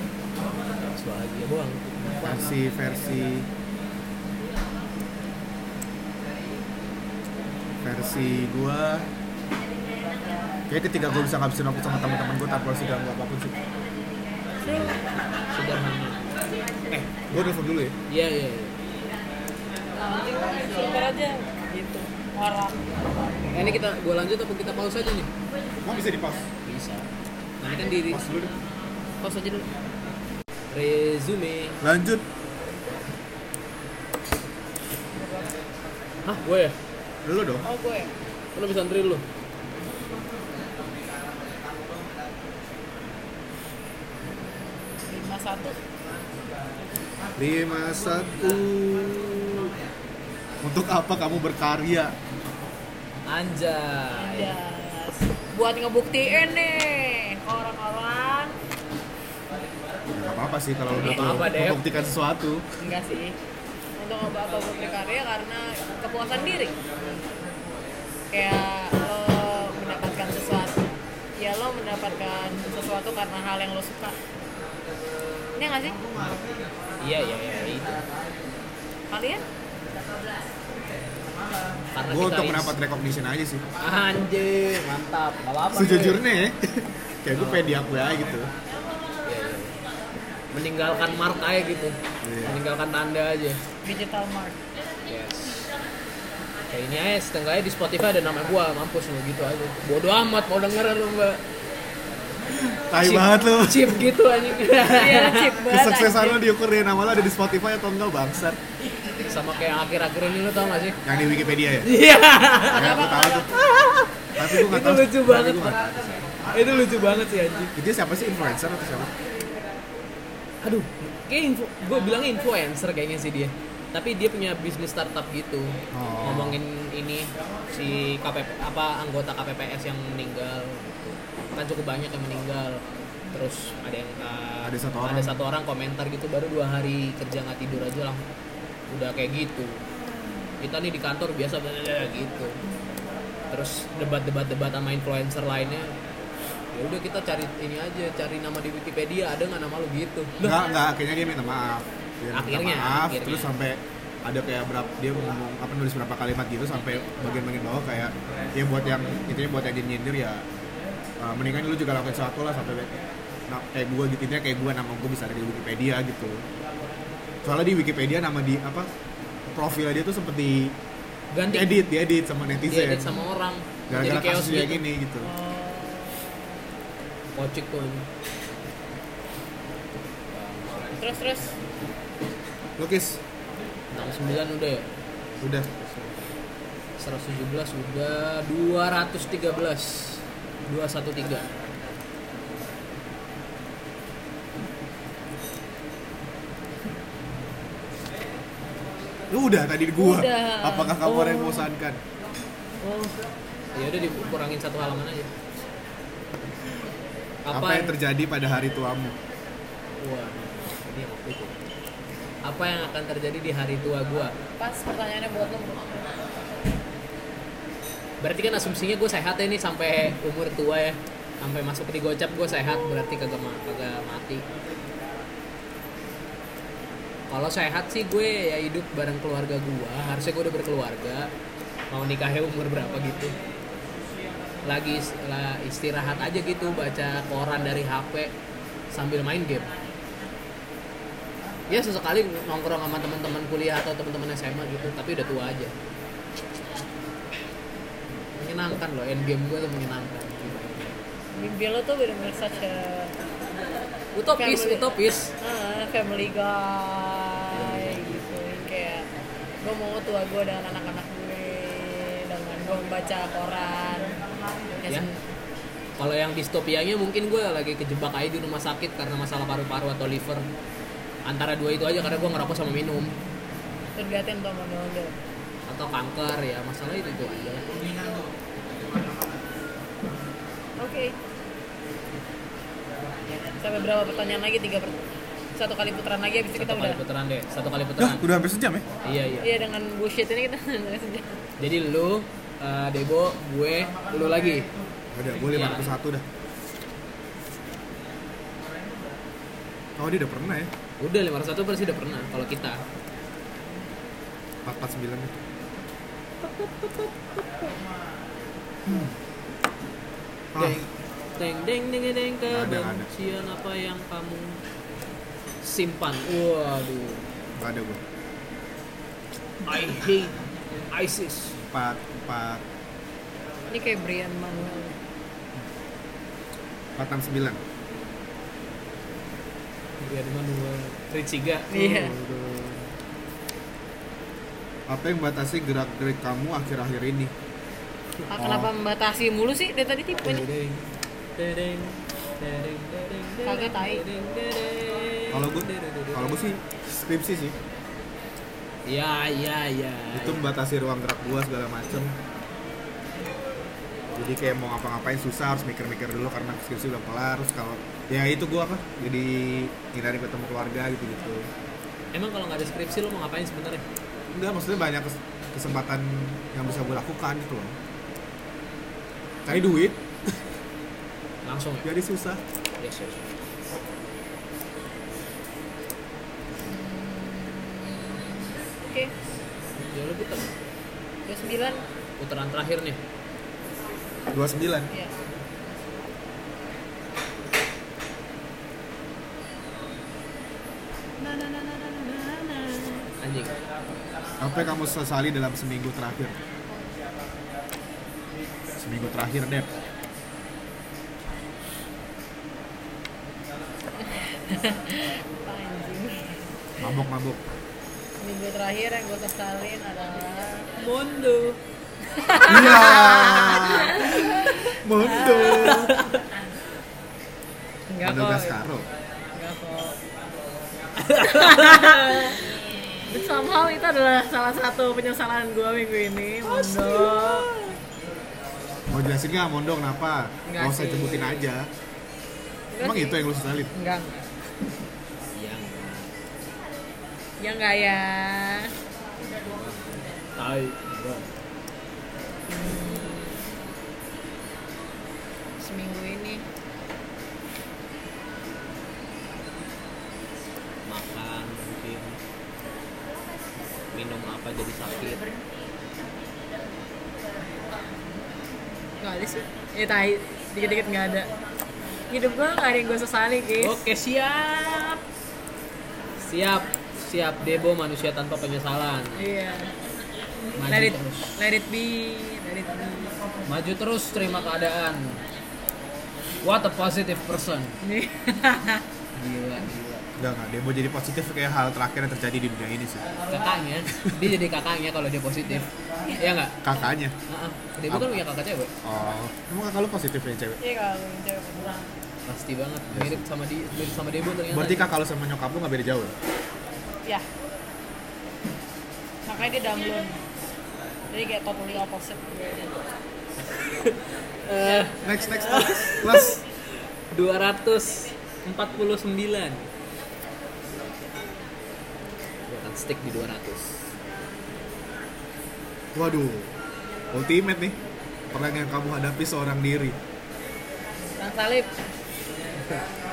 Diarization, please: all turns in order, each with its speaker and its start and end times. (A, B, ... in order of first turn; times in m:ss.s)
0:01.0-0:02.5 A
0:02.2-0:03.5 B
0:07.8-0:09.1 B
0:10.7-0:13.6 B
0:14.6-0:15.0 C
0:15.5-0:16.3 A
0:16.9-0:18.0 B
0:18.1-0:18.8 A
0:19.9-0:23.7 C
0:23.5-0:25.3 A
0:25.8-0:26.5 B
0:26.6-0:28.3 A
0:28.0-0:28.5 B
0:29.2-0:29.7 C
0:30.7-0:31.8 A
0:31.8-0:32.2 B
0:35.1-0:35.6 C
0:36.2-0:36.8 A
0:37.2-0:37.7 B
0:37.6-0:38.1 C
0:38.6-0:39.2 A
0:44.2-0:45.8 C
0:47.4-0:49.7 B
0:50.6-0:52.2 B
0:53.3-0:54.6 A
0:54.2-0:58.6 C
1:00.1-1:02.6 B
1:00.9-1:01.8 A
1:02.8-1:03.4 C
1:04.0-1:07.2 C
1:08.3-1:10.8 C
1:11.4-1:14.2 C
1:15.6-1:16.0 C
1:17.0-1:18.1 A
1:19.1-1:19.4 C
1:22.0-1:22.8 A
1:22.1-1:23.7 B
1:23.8-1:26.2 A
1:25.7-1:28.5 B
1:27.3-1:28.2 A
1:29.2-1:29.8 A
1:30.5-1:33.6 A
1:32.2-1:32.6 B
1:33.8-1:34.6 C
1:35.1-1:35.7 A
1:36.7-1:41.4 A
1:42.5-1:44.1 B
1:43.0-1:45.6 A
1:44.8-1:46.4 C
1:45.6-1:48.6 B
1:49.2-1:51.0 A
1:51.0-1:51.9 B
1:51.8-1:53.0 A
1:52.6-1:53.6 B
1:52.7-1:53.6 C
1:53.5-1:55.8 A
1:54.4-1:56.4 B
1:56.5-1:57.7 A
1:57.8-1:59.1 B
2:00.6-2:18.2 A
2:05.9-2:06.6 B
2:14.6-2:15.4 B
2:18.9-2:19.8 A
2:20.6-2:22.6 A
2:23.5-2:25.9 A
2:26.7-2:30.6 A
2:30.4-2:40.5 B
2:32.3-2:33.5 A
2:41.2-2:46.4 B
2:47.4-2:48.9 B
2:49.5-2:50.8 B
2:51.3-2:51.8 A
2:51.5-2:53.2 B
2:52.7-2:54.8 A
2:53.9-2:55.3 B
2:55.2-2:56.6 C
2:57.4-2:58.1 A
3:00.3-3:01.0 A
3:01.0-3:01.5 C
3:02.8-3:03.2 B
3:03.9-3:04.9 A
3:05.4-3:06.3 B
3:07.0-3:11.5 A
3:19.3-3:22.0 B
3:20.0-3:21.1 C
3:21.0-3:21.7 A
3:22.8-3:23.2 A
3:23.8-3:25.3 A
3:27.5-3:28.0 A
3:27.5-3:29.2 B
3:30.0-3:31.7 A
3:32.4-3:34.3 A
3:34.6-3:36.1 C
3:38.2-3:44.4 A
3:47.3-3:51.3 A
3:51.9-3:53.4 A
3:54.6-3:58.3 A
3:58.9-3:59.7 A
4:01.7-4:05.7 A
4:08.4-4:11.0 A
4:11.3-4:13.2 C
4:14.2-4:15.3 A
4:14.4-4:19.1 C
4:17.6-4:18.3 A
4:19.6-4:24.2 C
4:24.8-4:25.2 C
4:26.0-4:30.5 A
4:31.3-4:33.1 A
4:34.0-4:35.1 C
4:35.7-4:38.0 A
4:40.8-4:41.2 C
4:43.3-4:45.0 C
4:45.6-4:47.0 C
4:46.5-4:48.3 A
4:48.0-4:48.9 B
4:49.0-4:49.6 A
4:49.4-4:51.3 C
4:51.6-4:54.7 A
4:55.1-4:56.2 B
4:55.5-4:56.0 A
5:00.0-5:00.7 B
5:01.0-5:02.8 A
5:04.6-5:05.4 B
5:06.4-5:07.8 A
5:08.9-5:09.2 B
5:10.5-5:10.9 B
5:10.6-5:10.9 A
5:11.4-5:14.6 A
5:12.5-5:13.1 B
5:15.6-5:17.3 A
5:17.6-5:18.0 B
5:19.6-5:20.3 A
5:20.9-5:21.6 A
5:21.6-5:22.6 B
5:23.7-5:25.0 C
5:27.0-5:27.6 B
5:30.0-5:32.1 A
5:31.7-5:32.2 C
5:31.9-5:32.9 B
5:34.9-5:37.3 B
5:38.3-5:40.5 C
5:38.4-5:38.7 B
5:40.2-5:46.5 A
5:43.4-5:44.0 C
5:45.3-5:47.6 B
5:48.9-5:50.5 A
5:50.1-5:52.2 B
5:54.1-6:01.5 B
6:02.1-6:03.8 A
6:04.3-6:07.8 B
6:09.4-6:10.5 B
6:11.4-6:11.9 A
6:11.8-6:12.4 B
6:12.8-6:13.2 A
6:16.6-6:19.1 C
6:19.9-6:20.5 A
6:21.3-6:21.8 C
6:22.2-6:23.0 A
6:24.3-6:24.9 B
6:31.2-6:33.6 A
6:34.4-6:36.4 B
6:38.8-6:39.7 B
6:44.0-6:46.7 C
6:46.8-6:47.4 B
6:48.2-6:50.7 C
6:50.8-6:51.6 A
6:52.1-6:56.0 C
6:52.5-6:56.0 B
6:55.5-6:56.2 A
6:57.9-6:58.6 C
6:58.0-6:58.9 B
6:59.4-7:00.0 C
7:01.0-7:02.4 A
7:01.2-7:02.5 C
7:03.1-7:07.5 C
7:06.4-7:07.8 A
7:08.9-7:11.7 B
7:10.5-7:11.5 C
7:12.7-7:14.2 C
7:12.8-7:13.7 B
7:15.3-7:16.1 A
7:17.4-7:18.7 C
7:19.4-7:21.3 A
7:22.5-7:23.4 C
7:25.6-7:26.4 C
7:30.9-7:32.2 A
7:33.9-7:35.2 A
7:39.0-7:41.3 C
7:42.1-7:43.8 C
7:43.6-7:45.0 A
7:46.2-7:49.2 A
7:49.2-7:49.7 C
7:50.6-7:51.3 A
7:50.7-7:53.2 C
7:53.5-7:55.2 A
7:56.4-7:57.8 A
7:57.8-7:58.9 C
7:59.2-8:00.1 A
8:00.2-8:03.1 B
8:03.3-8:06.6 A
8:06.6-8:07.2 B
8:07.3-8:08.7 A
8:07.9-8:08.2 B
8:08.8-8:10.6 B
8:10.6-8:11.8 C
8:12.3-8:14.9 A
8:12.9-8:13.2 B
8:14.5-8:16.1 B
8:19.3-8:20.2 C
8:21.1-8:22.8 C
8:23.7-8:26.4 A
8:24.6-8:24.9 C
8:25.0-8:26.4 B
8:27.1-8:29.7 A
8:32.5-8:33.8 A
8:35.9-8:36.5 B
8:37.1-8:37.8 B
8:38.3-8:40.0 B
8:41.2-8:41.7 C